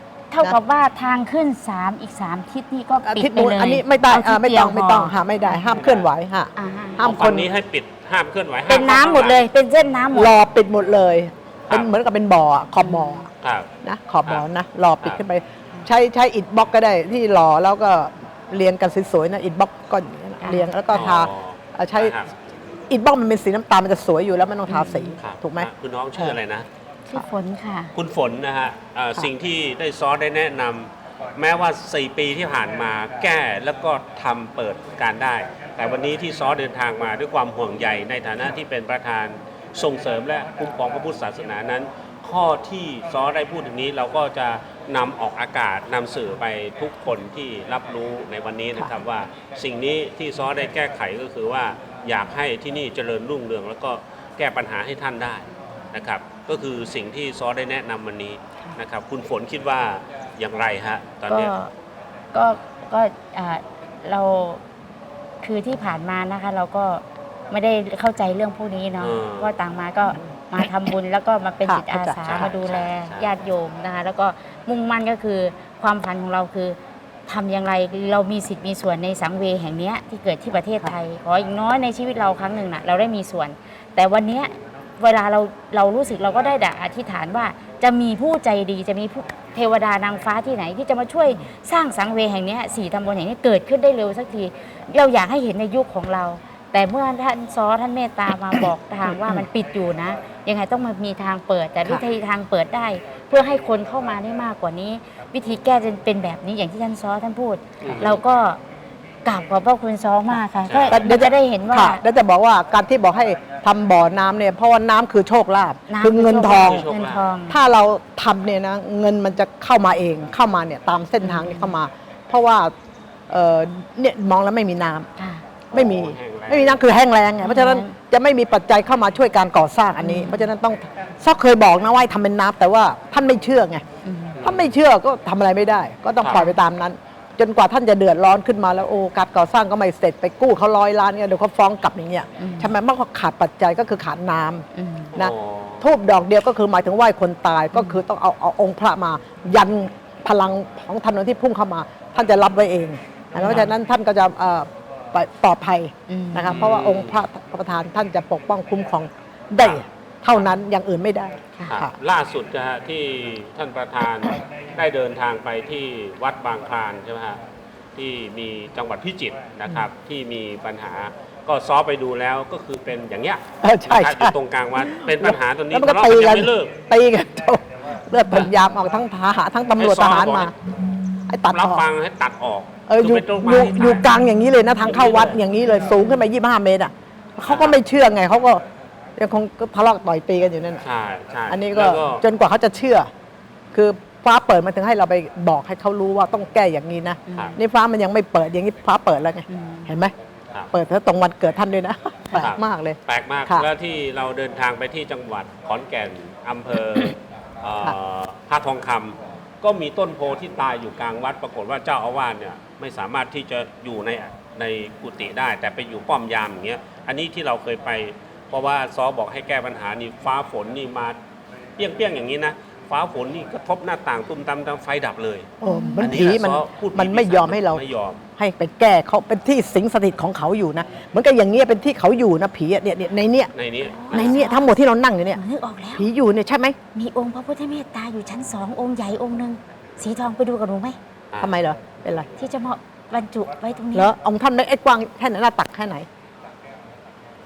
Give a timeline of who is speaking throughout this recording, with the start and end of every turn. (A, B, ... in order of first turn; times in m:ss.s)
0:00.3-0:05.8 A
0:03.0-0:07.5 B
0:05.8-0:06.1 C
0:06.6-0:07.2 A
0:07.0-0:09.4 C
0:08.7-0:10.4 A
0:10.1-0:13.3 B
0:12.8-0:13.3 A
0:13.4-0:13.7 C
0:13.8-0:22.2 B
0:20.4-0:20.7 A
0:20.9-0:22.3 C
0:22.9-0:26.4 B
0:24.7-0:25.2 A
0:25.2-0:26.7 C
0:27.1-0:27.9 A
0:28.0-1:01.5 C
1:01.3-1:01.7 A
1:02.3-1:04.6 A
1:05.4-1:48.6 A
1:09.0-1:09.5 C
1:11.6-1:12.5 B
1:12.2-1:13.3 C
1:39.1-1:39.4 B
1:47.8-1:48.2 C
1:49.2-1:52.0 A
1:50.7-1:51.0 C
1:50.9-1:56.9 B
1:55.9-1:57.6 A
1:56.4-1:57.3 C
1:57.5-2:02.7 B
2:01.2-2:01.8 A
2:03.3-2:05.1 B
2:05.2-2:05.4 A
2:05.7-2:13.8 B
2:05.7-2:06.8 C
2:07.4-2:08.0 A
2:10.0-2:10.5 A
2:14.0-2:14.4 A
2:14.4-2:14.7 C
2:14.4-2:42.0 B
2:16.3-2:16.6 A
2:22.4-2:22.7 A
2:24.7-2:25.1 A
2:25.1-2:25.9 C
2:27.8-2:28.0 A
2:33.4-2:33.7 A
2:36.1-2:36.6 A
2:36.5-2:37.2 C
2:41.7-2:47.4 C
2:48.0-2:56.7 C
2:53.6-3:00.5 B
2:59.8-3:00.5 C
3:01.3-3:01.8 B
3:01.5-3:04.1 C
3:02.9-3:08.6 B
3:04.8-3:05.4 C
3:07.5-3:07.8 C
3:09.2-3:10.8 B
3:10.8-3:12.2 C
3:11.5-3:13.1 B
3:13.7-3:20.1 B
3:17.3-3:17.6 A
3:19.5-3:19.9 A
3:20.7-3:23.7 B
3:22.4-3:41.2 C
3:41.8-3:48.2 C
3:45.6-3:47.8 B
3:45.7-3:46.1 A
3:48.4-3:53.5 B
3:53.5-3:54.5 C
3:53.8-3:54.7 A
3:54.1-3:55.4 B
3:55.3-3:56.1 A
3:56.0-3:56.8 B
3:56.9-4:01.0 A
4:01.4-4:02.3 B
4:02.4-4:04.1 A
4:04.0-4:06.1 B